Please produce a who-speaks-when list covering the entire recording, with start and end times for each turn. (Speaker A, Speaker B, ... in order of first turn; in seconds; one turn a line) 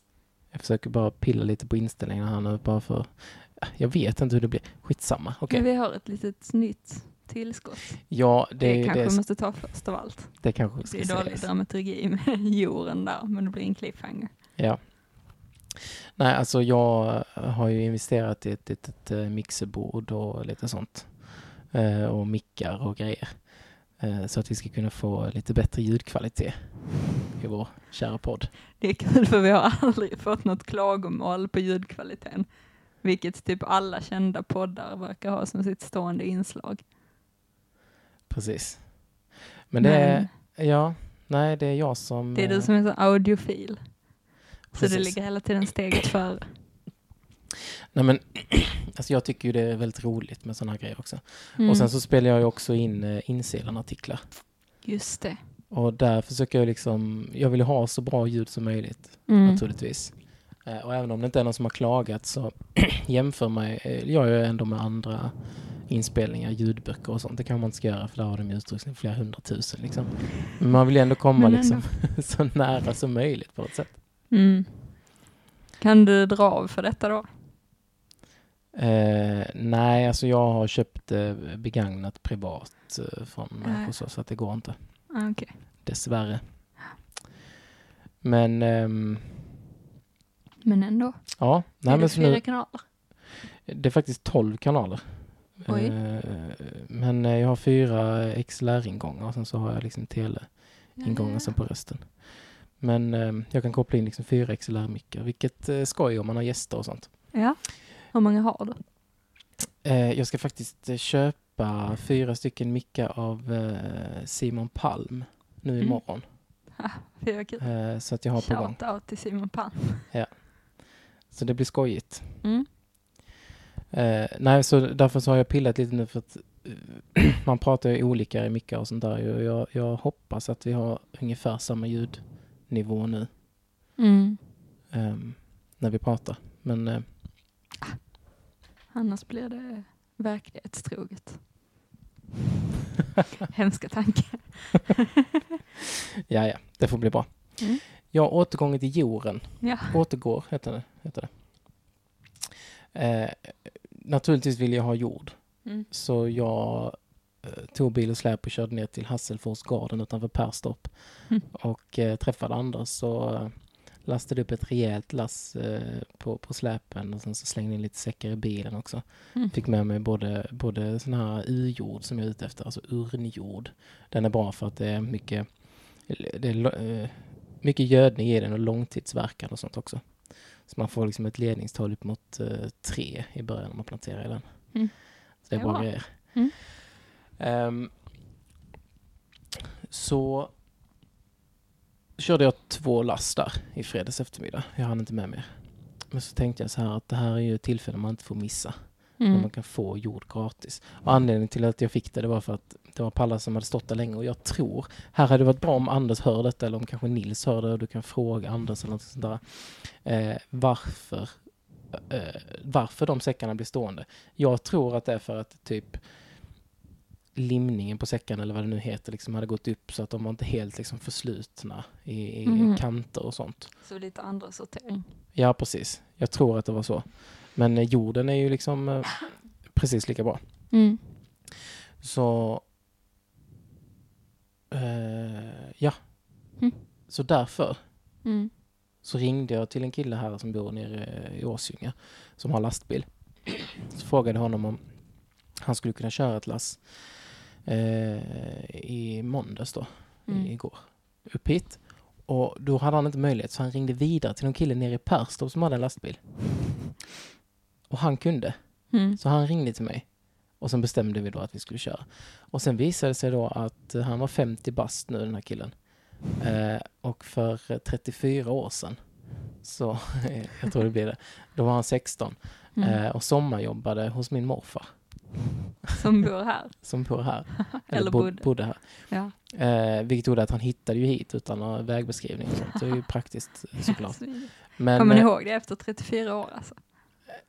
Speaker A: 0.5-5.6
Speaker B: 5.5-14.3
Speaker A: 8.1-9.8
Speaker A: 10.3-11.5
Speaker A: 14.6-15.4
Speaker A: 16.2-28.5
Speaker B: 28.8-36.9
Speaker A: 38.3-42.7
Speaker B: 39.8-40.3
Speaker B: 42.3-44.2
Speaker B: 44.7-46.6
Speaker A: 44.7-45.2
Speaker A: 47.9-54.3
Speaker B: 51.6-51.9
Speaker B: 54.8-55.4
Speaker A: 55.7-74.0
Speaker B: 59.3-59.6
Speaker B: 71.4-71.9
Speaker B: 74.3-75.2
Speaker B: 75.8-77.3
Speaker A: 78.7-85.2
Speaker B: 83.6-83.9
Speaker B: 85.1-85.6
Speaker A: 85.8-86.7
Speaker A: 88.2-89.4
Speaker B: 90.6-92.8
Speaker A: 91.4-92.9
Speaker A: 93.6-107.3
Speaker B: 95.7-96.0
Speaker B: 101.0-101.5
Speaker B: 107.3-108.8
Speaker A: 109.8-116.2
Speaker B: 116.7-120.1
Speaker A: 117.6-118.8
Speaker A: 120.1-122.4
Speaker A: 123.9-133.3
Speaker B: 134.0-134.4
Speaker A: 134.9-137.2
Speaker B: 138.9-141.5
Speaker B: 143.5-145.0
Speaker A: 146.3-151.9
Speaker B: 149.6-149.9
Speaker A: 152.9-186.7
Speaker B: 184.7-186.5
Speaker A: 187.4-188.0
Speaker A: 189.9-190.5
Speaker A: 192.2-216.0
Speaker B: 199.2-199.5
Speaker A: 217.3-223.7
Speaker B: 222.4-222.8
Speaker B: 223.8-225.1
Speaker A: 225.3-230.8
Speaker B: 230.7-231.0
Speaker A: 232.0-232.6
Speaker A: 234.7-236.6
Speaker B: 236.6-236.8
Speaker A: 237.1-237.8
Speaker B: 238.2-238.5
Speaker A: 239.0-256.5
Speaker B: 250.3-250.5
Speaker A: 257.9-275.3
Speaker B: 258.9-259.2
Speaker B: 275.9-279.3
Speaker A: 276.7-285.3
Speaker B: 283.9-286.8